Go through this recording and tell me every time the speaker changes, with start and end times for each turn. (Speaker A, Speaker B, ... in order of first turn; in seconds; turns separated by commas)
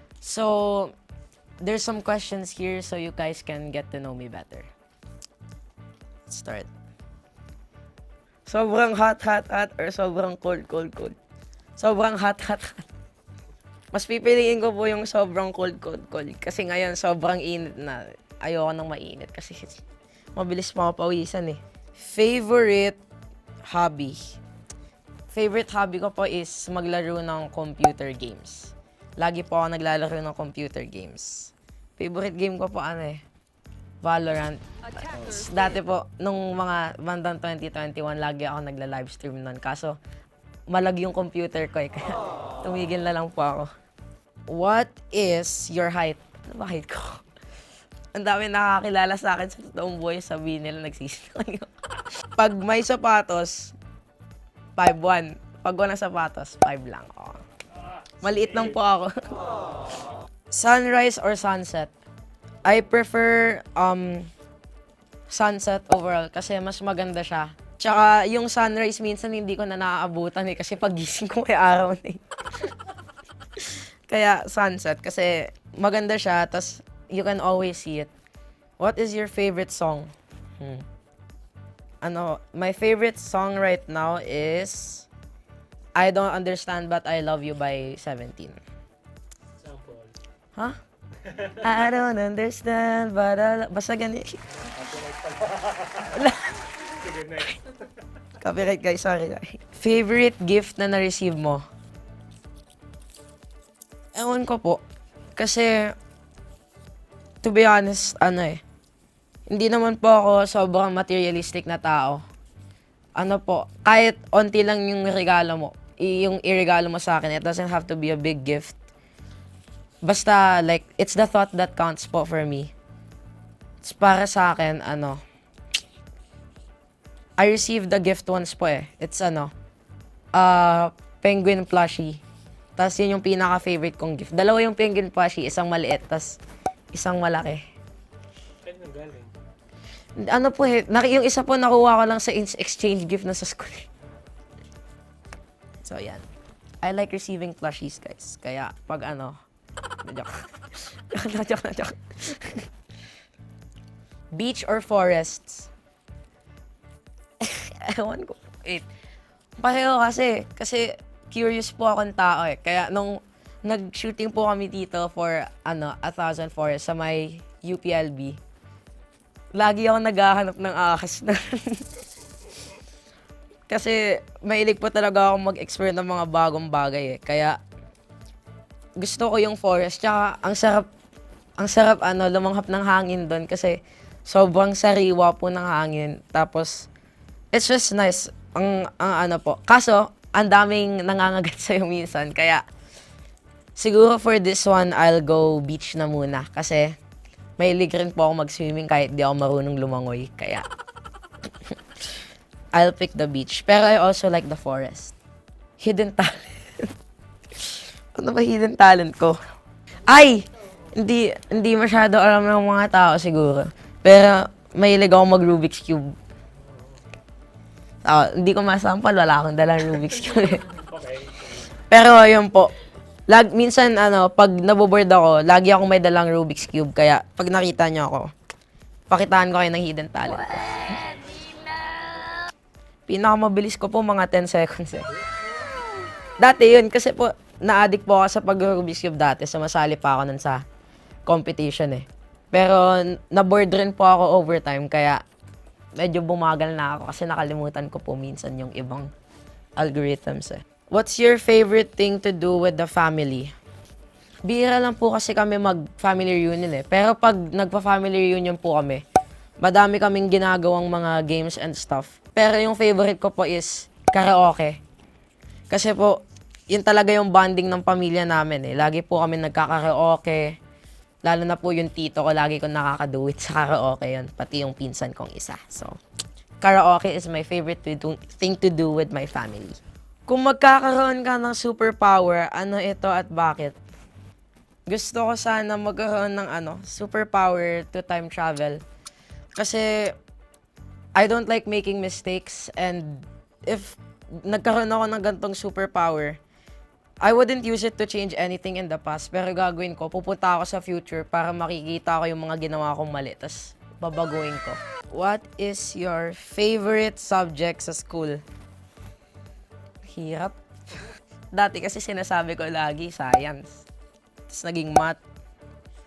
Speaker A: 0.2-0.9, Speaker A: 1.6-4.7, Speaker A: 6.3-6.7, Speaker A: 8.5-11.2, Speaker A: 11.8-12.9, Speaker A: 13.9-19.8, Speaker A: 20.4-23.0, Speaker A: 23.7-24.4, Speaker A: 25.3-33.2, Speaker A: 34.0-40.0, Speaker A: 40.7-43.7, Speaker A: 44.5-47.2, Speaker A: 48.1-51.7, Speaker A: 52.2-53.8, Speaker A: 54.8-57.5, Speaker A: 58.2-59.5, Speaker A: 60.5-61.9, Speaker A: 62.6-64.3, Speaker A: 65.3-72.7, Speaker A: 73.6-78.1, Speaker A: 78.8-80.9, Speaker A: 82.0-85.1, Speaker A: 86.0-88.6, Speaker B: 89.6-90.1, Speaker B: 91.2-91.5, Speaker A: 91.5-94.6, Speaker B: 94.6-96.3, Speaker A: 96.1-96.9, Speaker B: 96.9-97.8, Speaker A: 98.4-101.6, Speaker A: 104.2-104.8, Speaker A: 105.4-106.0, Speaker A: 107.4-108.6, Speaker A: 109.5-112.2, Speaker A: 113.2-118.8, Speaker A: 120.0-122.7, Speaker A: 123.8-125.2, Speaker A: 127.4-129.5, Speaker A: 130.3-132.2, Speaker A: 132.8-136.4, Speaker A: 136.9-137.6, Speaker B: 138.6-139.3, Speaker A: 140.2-143.9, Speaker A: 145.8-146.2, Speaker A: 146.8-149.4, Speaker A: 150.0-152.7, Speaker A: 154.3-155.7, Speaker A: 157.4-158.9, Speaker A: 159.6-168.4, Speaker A: 169.6-172.0, Speaker A: 173.7-177.6, Speaker A: 179.0-180.9, Speaker A: 181.6-186.9, Speaker A: 187.5-192.6, Speaker A: 193.8-197.0, Speaker A: 197.6-200.7, Speaker A: 202.7-205.2, Speaker A: 205.8-206.9, Speaker A: 207.6-209.4, Speaker A: 210.1-216.2, Speaker B: 216.7-217.0, Speaker A: 218.0-220.7, Speaker B: 220.7-221.7, Speaker A: 221.9-222.7, Speaker A: 223.3-228.3, Speaker A: 229.1-231.1, Speaker A: 233.1-235.1, Speaker A: 236.4-240.6, Speaker A: 241.3-245.2, Speaker A: 246.0-249.1, Speaker A: 249.8-253.5, Speaker A: 254.4-259.0, Speaker A: 259.6-264.8, Speaker A: 265.7-266.2, Speaker A: 266.7-270.6, Speaker A: 271.2-276.0, Speaker A: 276.6-283.8, Speaker A: 284.9-288.8, Speaker A: 289.6-290.1, Speaker A: 291.1-296.4, Speaker A: 297.2-308.4, Speaker A: 310.0-313.9, Speaker A: 314.5-315.2